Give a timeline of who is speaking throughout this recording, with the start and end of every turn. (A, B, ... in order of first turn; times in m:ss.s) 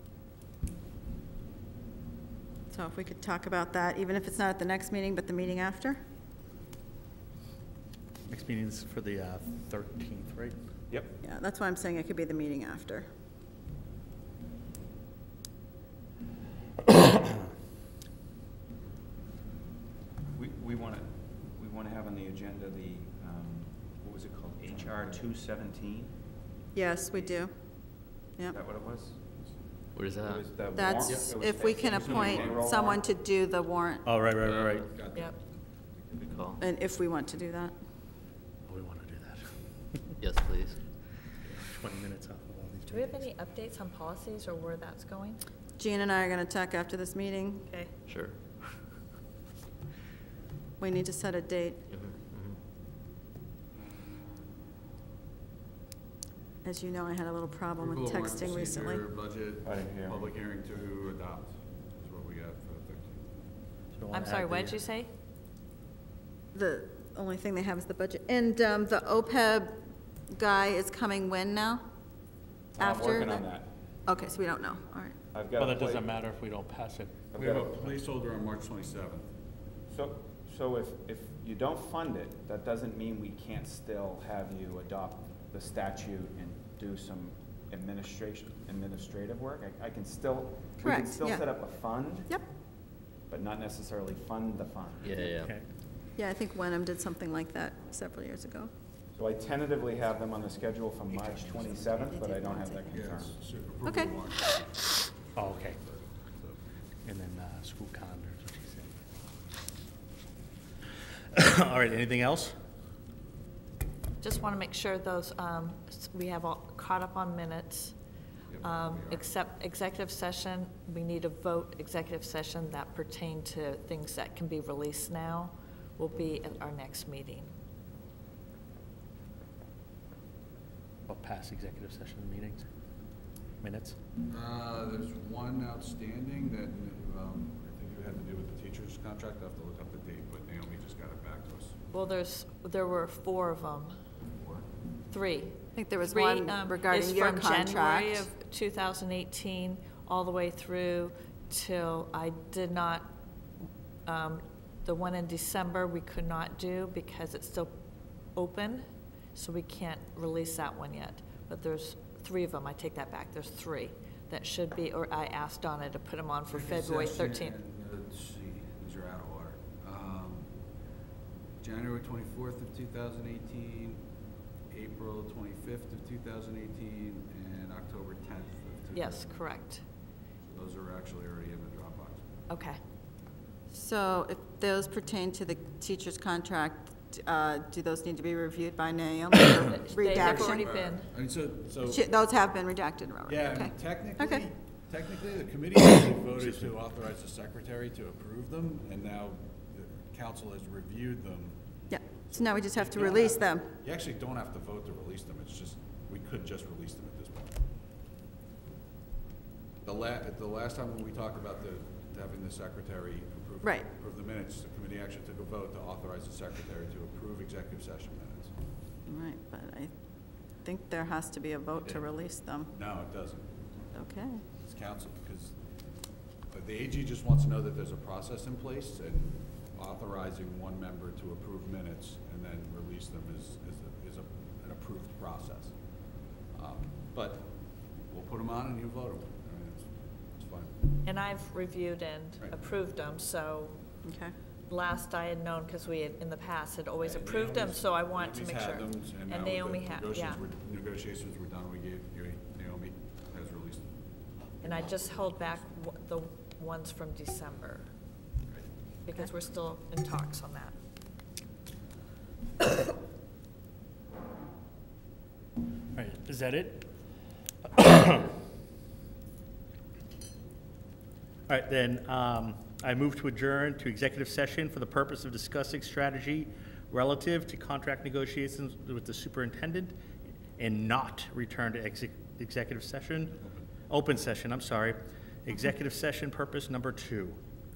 0:02.7-0:06.0 A
0:08.3-0:10.6 B
0:10.9-0:11.2 C
0:11.2-0:13.1 A
0:20.4-0:26.2 C
0:26.7-0:27.5 A
0:28.5-0:29.2 C
0:30.0-0:30.5 D
0:30.2-0:33.0 C
0:30.8-0:34.0 A
0:31.9-0:32.6 E
0:34.0-0:34.9 B
0:34.4-0:35.3 E
0:36.1-0:36.5 E
0:36.3-0:36.6 D
0:36.6-0:37.7 A
0:38.7-0:39.4 B
0:40.2-0:40.8 D
0:41.5-0:43.3 B
0:42.9-0:45.4 F
0:45.8-0:47.7 A
0:47.7-0:47.9 F
0:48.1-0:48.4 D
0:50.8-0:51.8 A
0:51.9-0:52.6 D
0:53.9-0:54.4 E
0:56.6-0:59.0 A
0:57.8-1:03.2 E
0:59.6-1:00.2 C
1:04.0-1:04.8 B
1:04.1-1:05.1 F
1:06.5-1:09.8 A
1:10.3-1:11.8 A
1:12.8-1:13.7 C
1:12.8-1:13.5 A
1:14.1-1:15.2 A
1:15.3-1:16.1 C
1:15.6-1:17.3 B
1:17.3-1:17.8 C
1:17.4-1:19.3 E
1:19.9-1:32.3 C
1:30.8-1:31.5 A
1:33.3-1:35.3 C
1:35.0-1:35.5 D
1:35.4-1:35.7 B
1:36.2-1:38.7 A
1:39.2-1:43.4 C
1:41.2-1:43.0 A
1:42.9-1:46.6 E
1:43.8-1:44.2 A
1:45.4-1:45.8 B
1:47.0-1:48.9 B
1:51.3-1:52.6 B
1:54.2-1:58.0 F
1:58.5-1:59.3 E
1:58.6-2:07.5 F
2:11.1-2:12.6 B
2:13.6-2:14.0 B
2:14.3-2:21.8 E
2:21.9-2:24.0 F
2:24.3-2:24.7 E
2:25.1-2:33.1 F
2:25.8-2:28.3 A
2:34.1-2:37.7 F
2:38.4-2:47.5 F
2:46.5-2:50.5 E
2:51.6-2:54.0 E
2:54.7-2:59.6 E
2:58.9-2:59.8 F
3:00.4-3:02.3 E
3:02.5-3:02.8 F
3:03.7-3:10.7 A
3:09.7-3:11.1 F
3:10.1-3:12.1 E
3:11.8-3:14.5 A
3:13.3-3:21.6 E
3:21.9-3:23.7 A
3:22.3-3:27.5 E
3:29.8-3:38.5 E
3:39.1-3:39.9 A
3:40.6-3:42.7 A
3:41.8-3:42.1 E
3:42.7-3:43.6 E
3:43.9-3:44.4 A
3:44.6-3:45.5 E
3:46.5-3:55.8 E
3:56.5-3:57.5 E
3:58.1-4:00.7 E
4:01.0-4:03.8 F
4:04.0-4:04.3 A
4:04.7-4:10.4 F
4:07.0-4:13.9 E
4:14.6-4:17.9 F
4:14.6-4:15.1 E
4:19.0-4:20.8 F
4:25.9-4:26.9 B
4:27.7-4:28.3 B
4:31.5-4:40.0 B
4:40.6-4:47.4 B